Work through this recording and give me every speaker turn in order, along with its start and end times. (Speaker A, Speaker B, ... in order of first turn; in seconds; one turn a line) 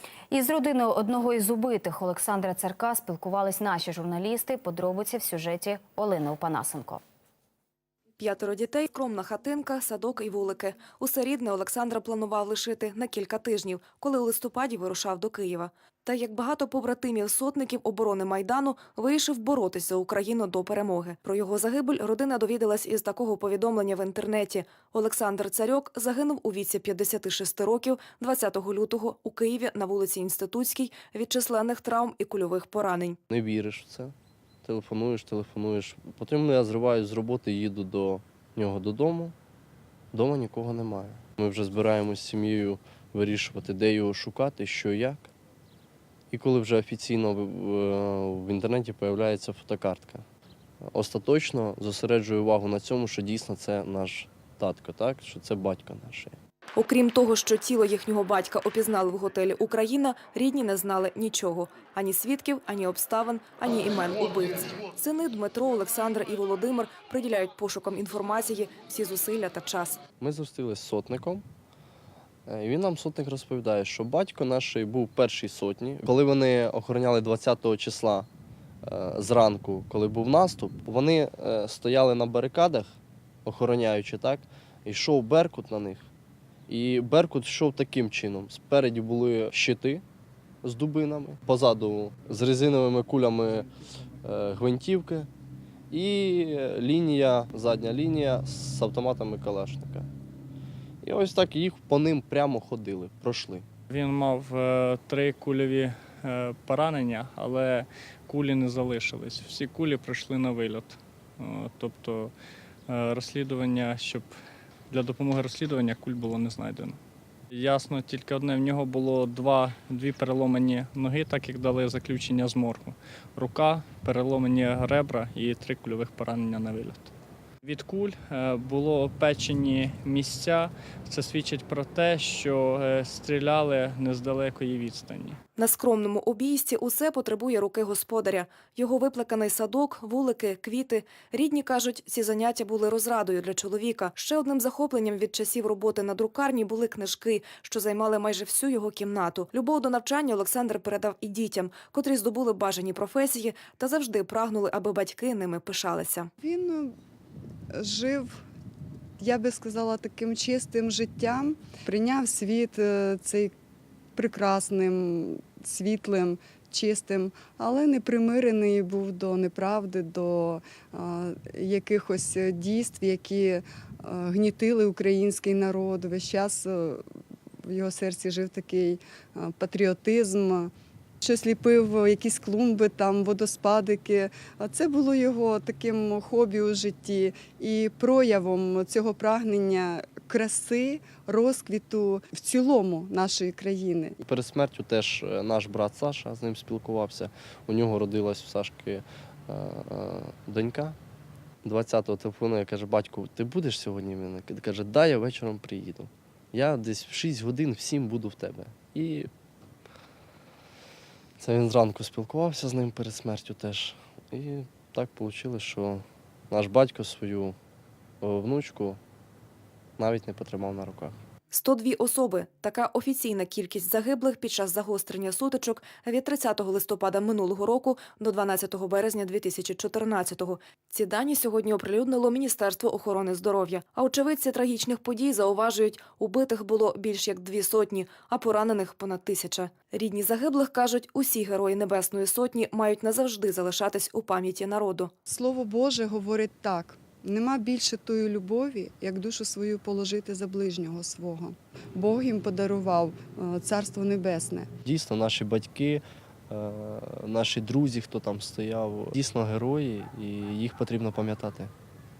Speaker A: 0.3-7.0
Speaker B: 8.2-33.2
Speaker C: 33.3-39.3
Speaker C: 40.1-45.3
Speaker C: 46.3-50.2
Speaker C: 50.9-56.4
Speaker B: 56.8-70.0
Speaker C: 70.2-71.4
Speaker C: 72.5-78.3
Speaker C: 78.8-86.1
Speaker C: 86.7-90.0
Speaker C: 90.6-93.7
Speaker C: 94.2-95.3
Speaker C: 95.9-100.1
Speaker C: 101.0-103.7
Speaker D: 103.9-112.3
Speaker D: 112.9-114.3
Speaker D: 114.9-117.0
Speaker D: 117.5-127.1
Speaker D: 127.6-135.4
Speaker B: 135.6-156.3
Speaker E: 156.4-156.9
Speaker E: 157.7-158.3
Speaker E: 159.2-163.5
Speaker E: 164.2-177.0
Speaker E: 177.6-194.2
Speaker C: 194.2-201.0
Speaker C: 201.6-209.3
Speaker C: 211.4-217.6
Speaker C: 218.2-219.0
Speaker C: 220.0-221.2
Speaker B: 221.5-245.1
Speaker E: 245.3-254.7
Speaker C: 254.8-261.7